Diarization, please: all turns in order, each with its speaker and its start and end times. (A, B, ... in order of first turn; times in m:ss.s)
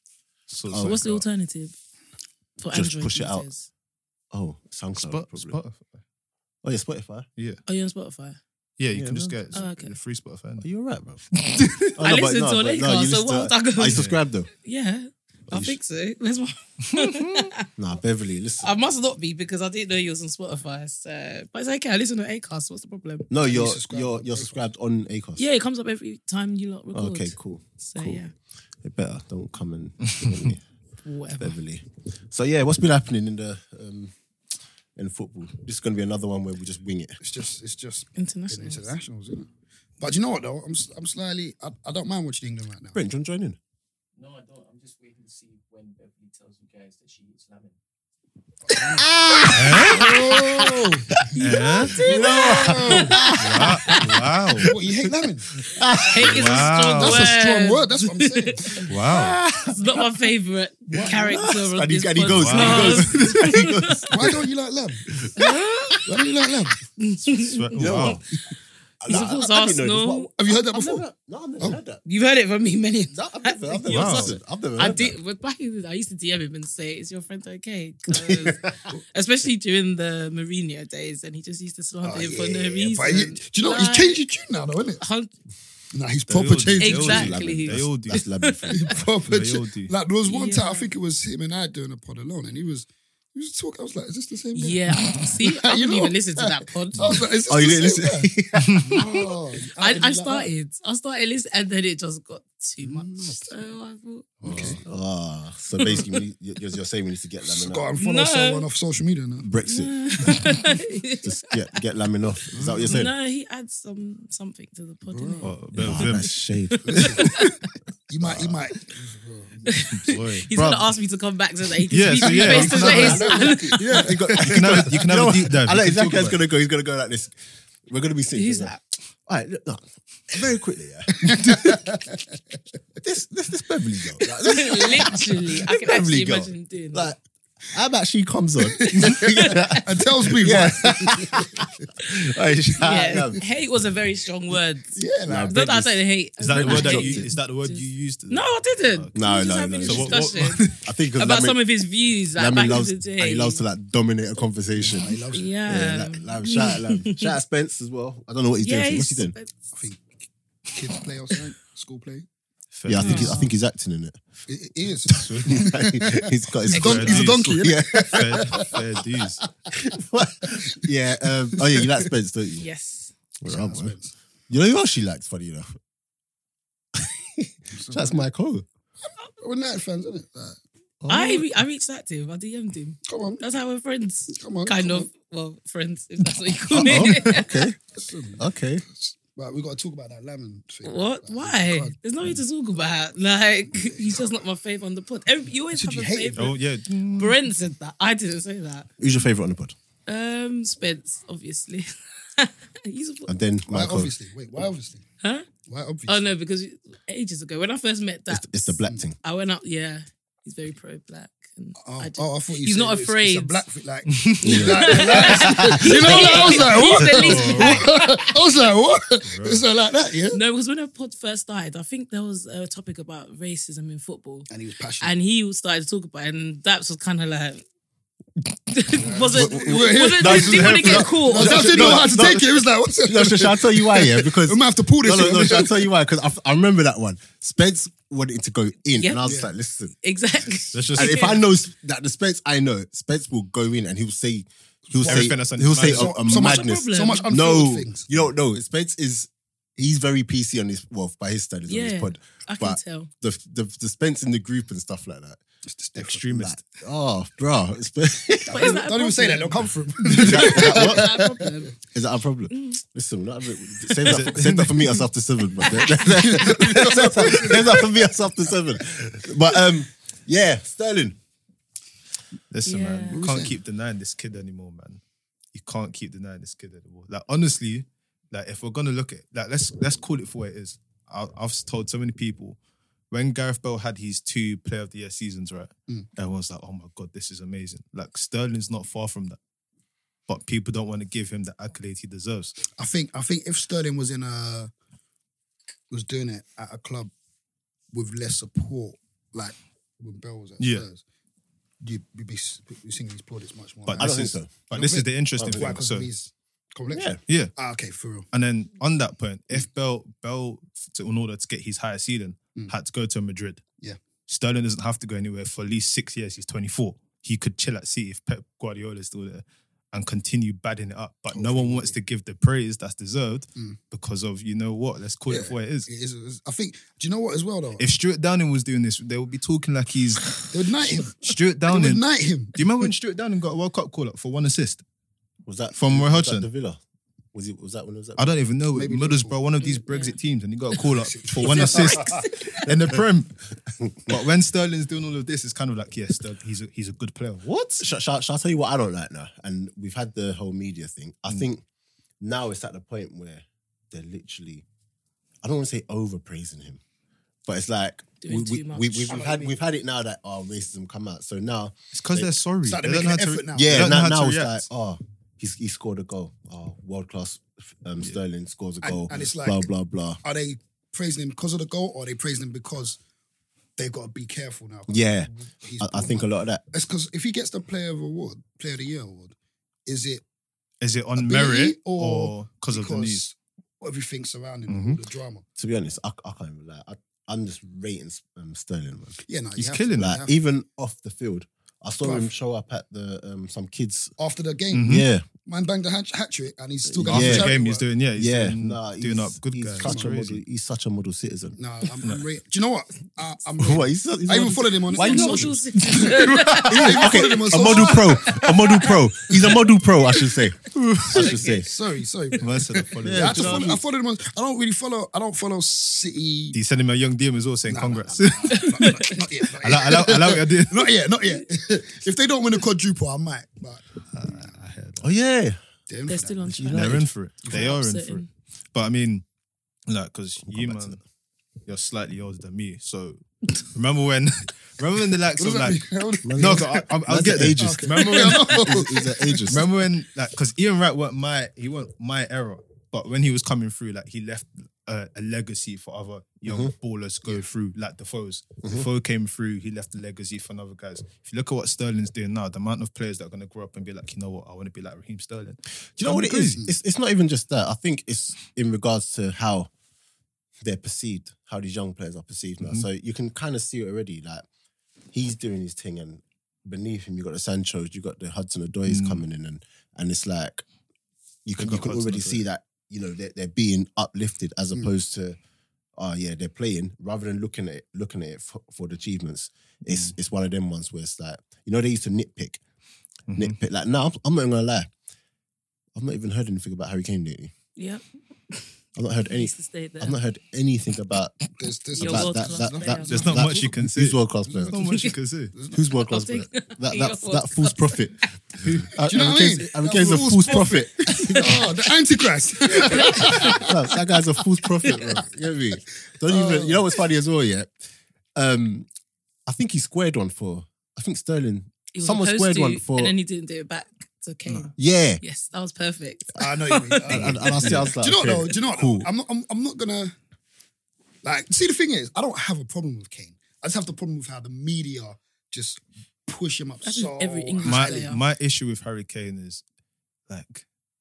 0:00.5-0:01.2 A
0:00.7-0:01.0 B
0:00.7-0:01.7 C
0:02.6-0:03.7 C
0:02.7-0:03.5 B
0:04.3-0:05.6 B
0:05.0-0:06.0 A
0:06.6-0:07.2 B
0:07.6-0:08.4 C
0:08.8-0:10.6 A
0:08.9-0:09.5 B
0:09.5-0:09.9 C
0:10.6-0:14.5 B
0:11.3-0:11.9 A
0:12.0-0:17.7 C
0:13.9-0:14.2 A
0:15.5-0:15.8 B
0:16.9-0:17.5 A
0:17.8-0:18.7 B
0:18.6-0:23.3 C
0:23.3-0:25.4 B
0:23.4-0:24.6 D
0:25.4-0:28.3 C
0:26.9-0:28.2 B
0:28.8-0:30.6 B
0:30.1-0:30.5 A
0:31.0-0:31.6 C
0:31.3-0:34.1 B
0:35.0-0:37.2 B
0:37.2-0:39.5 D
0:38.2-0:38.9 C
0:40.0-0:43.0 D
0:42.9-0:43.6 B
0:44.2-0:47.8 E
0:48.6-0:49.1 D
0:48.7-0:56.6 B
0:49.5-0:50.1 A
0:49.8-0:51.4 D
0:51.4-0:53.4 C
0:51.4-0:52.0 A
0:51.9-0:53.3 D
0:53.4-0:54.7 A
0:54.6-0:55.5 D
0:56.1-0:58.8 C
0:56.2-0:57.3 A
0:57.0-0:59.0 D
0:58.9-0:59.4 A
0:59.0-1:00.1 B
0:59.7-1:04.1 C
1:00.9-1:01.5 D
1:01.0-1:04.5 B
1:02.2-1:03.6 A
1:04.1-1:05.1 D
1:05.0-1:05.6 B
1:05.4-1:06.1 C
1:06.0-1:06.8 D
1:07.0-1:07.9 C
1:07.3-1:08.2 A
1:07.7-1:08.2 B
1:09.0-1:12.0 B
1:09.1-1:10.3 C
1:10.4-1:11.0 D
1:12.0-1:24.2 C
1:13.1-1:15.2 B
1:13.9-1:14.4 A
1:18.1-1:18.8 B
1:22.0-1:25.0 D
1:25.0-1:25.3 C
1:25.9-1:27.3 D
1:26.3-1:28.2 A
1:26.8-1:28.9 C
1:27.1-1:28.9 B
1:28.7-1:38.3 D
1:29.2-1:29.9 A
1:30.2-1:30.9 C
1:34.5-1:37.2 C
1:37.1-1:39.3 B
1:38.6-1:39.0 A
1:38.8-1:40.5 D
1:39.8-1:44.9 C
1:42.8-1:43.5 D
1:44.4-1:44.8 D
1:44.4-1:47.9 B
1:47.4-1:49.5 D
1:48.0-1:48.6 C
1:49.4-1:50.6 B
1:49.7-1:51.5 C
1:51.2-1:53.1 B
1:52.6-1:52.9 A
1:52.8-1:56.1 C
1:55.1-1:55.5 D
1:55.4-1:56.3 A
1:55.8-1:57.1 B
1:56.7-1:57.6 C
1:56.8-1:59.7 D
1:58.2-1:58.6 B
1:59.6-2:04.0 C
1:59.9-2:00.5 A
2:00.5-2:00.9 B
2:01.9-2:03.3 A
2:02.2-2:04.8 D
2:02.4-2:08.7 B
2:04.3-2:06.4 A
2:08.3-2:08.8 C
2:09.3-2:11.8 B
2:11.1-2:12.4 D
2:13.0-2:23.4 B
2:14.5-2:17.1 C
2:18.7-2:21.6 D
2:19.2-2:19.7 C
2:22.8-2:33.6 C
2:25.0-2:25.6 D
2:25.2-2:27.3 B
2:26.4-2:29.1 A
2:29.1-2:31.6 B
2:29.8-2:30.8 A
2:32.4-2:39.3 B
2:34.8-2:35.5 D
2:35.3-2:37.3 C
2:38.6-2:39.7 C
2:39.7-2:42.3 D
2:42.7-2:43.3 A
2:42.8-2:44.2 B
2:43.0-2:43.5 C
2:43.1-2:43.4 D
2:44.5-2:48.8 D
2:45.1-2:48.8 B
2:45.1-2:45.7 A
2:46.7-2:49.4 A
2:49.7-2:52.6 B
2:50.5-2:50.8 D
2:52.6-2:53.1 C
2:53.4-2:54.0 B
2:53.4-2:54.1 D
2:54.5-2:55.7 B
2:57.0-2:58.6 B
2:57.7-2:58.2 D
2:59.4-3:00.6 D
3:01.0-3:01.5 B
3:01.1-3:07.6 C
3:03.0-3:03.4 D
3:04.3-3:05.1 D
3:06.7-3:07.4 A
3:06.8-3:07.8 B
3:07.5-3:12.0 D
3:08.4-3:08.8 B
3:10.8-3:16.6 C
3:13.7-3:14.4 D
3:15.7-3:16.5 D
3:16.4-3:17.4 A
3:17.2-3:18.9 C
3:19.0-3:19.7 B
3:20.1-3:23.3 C
3:23.3-3:24.1 B
3:23.6-3:25.0 D
3:25.2-3:25.5 C
3:25.6-3:26.3 D
3:26.1-3:33.6 C
3:28.3-3:29.2 B
3:31.8-3:40.4 D
3:34.1-3:34.8 A
3:34.4-3:36.2 B
3:34.4-3:38.1 C
3:36.0-3:37.9 A
3:39.2-3:39.6 A
3:40.3-3:44.5 C
3:44.5-3:45.1 D
3:45.0-3:47.6 C
3:48.7-3:52.1 C
3:49.0-3:55.9 D
3:49.3-3:59.9 B
3:50.2-3:52.1 A
3:59.0-3:59.2 C
3:59.2-3:59.5 D
4:00.0-4:01.4 C
4:00.7-4:01.3 A
4:00.9-4:15.4 B
4:04.9-4:08.1 D
4:05.0-4:06.1 A
4:06.2-4:07.3 C
4:11.7-4:13.1 C
4:15.7-4:16.2 D
4:16.0-4:16.6 A
4:16.3-4:18.8 B
4:18.4-4:21.6 D
4:18.4-4:21.8 C
4:20.2-4:21.3 B
4:21.8-4:31.2 B
4:22.5-4:22.8 C
4:24.0-4:25.0 A
4:25.6-4:26.1 C
4:25.8-4:28.0 D
4:32.5-4:35.0 A
4:32.6-4:33.2 C
4:33.1-4:33.6 D
4:35.5-4:42.6 A
4:43.1-4:49.4 A
4:50.3-4:52.6 A
4:52.7-4:54.7 D
4:55.9-4:57.1 D
4:57.9-5:01.0 D
5:00.6-5:00.8 A
5:01.8-5:08.3 D
5:03.8-5:06.1 A
5:04.0-5:04.5 B
5:05.4-5:05.8 B
5:06.9-5:07.2 B
5:07.3-5:07.5 A
5:08.3-5:13.6 A
5:14.3-5:25.9 A
5:21.3-5:22.0 D
5:25.3-5:27.8 D
5:27.8-5:30.4 A
5:30.5-5:32.9 D
5:31.2-5:32.0 A
5:32.5-5:34.8 A
5:35.4-5:36.8 B
5:35.7-5:36.5 A
5:37.3-5:38.2 B
5:38.2-5:43.4 A
5:38.7-5:39.4 D
5:39.6-5:40.2 C
5:40.8-5:42.3 D
5:41.5-5:42.6 C
5:43.9-5:44.2 B
5:44.0-5:47.8 A
5:47.8-5:51.6 B
5:52.2-5:54.6 B
5:55.4-5:56.8 B
5:57.4-6:02.3 B
5:58.2-5:59.2 C
5:59.1-5:59.5 D
6:01.9-6:04.6 A
6:02.6-6:03.8 D
6:03.5-6:10.2 B
6:08.8-6:09.7 D
6:10.2-6:13.0 D
6:13.8-6:19.3 D
6:14.9-6:15.3 B
6:15.8-6:16.6 B
6:19.8-6:20.2 D
6:20.8-6:23.3 A
6:21.2-6:25.4 D
6:24.7-6:25.0 A
6:25.6-6:29.2 B
6:29.2-6:30.3 D
6:29.6-6:30.2 A
6:30.0-6:34.1 B
6:32.0-6:32.3 D
6:34.2-6:37.8 D
6:34.7-6:35.0 A
6:34.9-6:35.2 B
6:36.9-6:37.6 B
6:37.0-6:40.4 A
6:38.2-6:41.6 B
6:39.8-6:40.1 D
6:41.6-6:48.5 D
6:43.6-6:45.6 B
6:44.9-6:49.0 C
6:46.2-6:47.0 A
6:46.7-6:51.7 B
6:50.7-6:51.2 A
6:51.1-6:51.7 C
6:51.2-6:56.6 D
6:52.4-6:53.7 A
6:53.0-6:53.8 B
6:56.5-6:58.9 A
6:57.7-7:04.5 D
6:58.5-6:59.2 C
6:59.6-7:00.9 A
7:04.1-7:05.1 A
7:05.0-7:05.6 B
7:05.9-7:06.4 D
7:06.1-7:08.3 C
7:06.4-7:07.1 B
7:06.7-7:09.2 A
7:07.4-7:07.7 D
7:09.9-7:11.0 A
7:10.5-7:11.0 B
7:11.6-7:15.8 A
7:15.4-7:16.9 D
7:16.2-7:19.6 B
7:16.4-7:18.7 A
7:17.6-7:19.7 D
7:19.5-7:36.6 A
7:26.4-7:26.7 B
7:36.0-7:39.7 B
7:40.6-7:44.4 B
7:45.1-7:50.6 B
7:48.8-7:49.2 A
7:51.4-7:55.4 B
7:51.6-7:52.4 A
7:56.0-8:02.6 B
7:59.8-8:00.1 A
8:03.3-8:03.6 A
8:03.3-8:04.9 B
8:05.9-8:07.5 B
8:07.8-8:08.7 C
8:09.0-8:11.4 B
8:09.3-8:10.2 C
8:11.6-8:13.3 D
8:11.9-8:13.2 C
8:12.0-8:14.8 B
8:13.1-8:15.5 A
8:14.8-8:15.1 C
8:15.5-8:15.8 D
8:15.7-8:21.7 B
8:16.0-8:18.2 C
8:18.6-8:18.9 A
8:19.0-8:23.7 D
8:22.8-8:23.7 C
8:22.8-8:27.7 B
8:24.8-8:25.1 C
8:26.2-8:26.8 D
8:28.4-8:28.9 B
8:29.4-8:33.1 B
8:31.9-8:37.6 C
8:34.8-8:35.2 B
8:36.4-8:40.1 D
8:37.1-8:39.1 B
8:37.4-8:37.9 A
8:41.2-8:48.1 D
8:46.8-8:48.2 C
8:47.6-8:49.6 A
8:50.3-8:50.6 A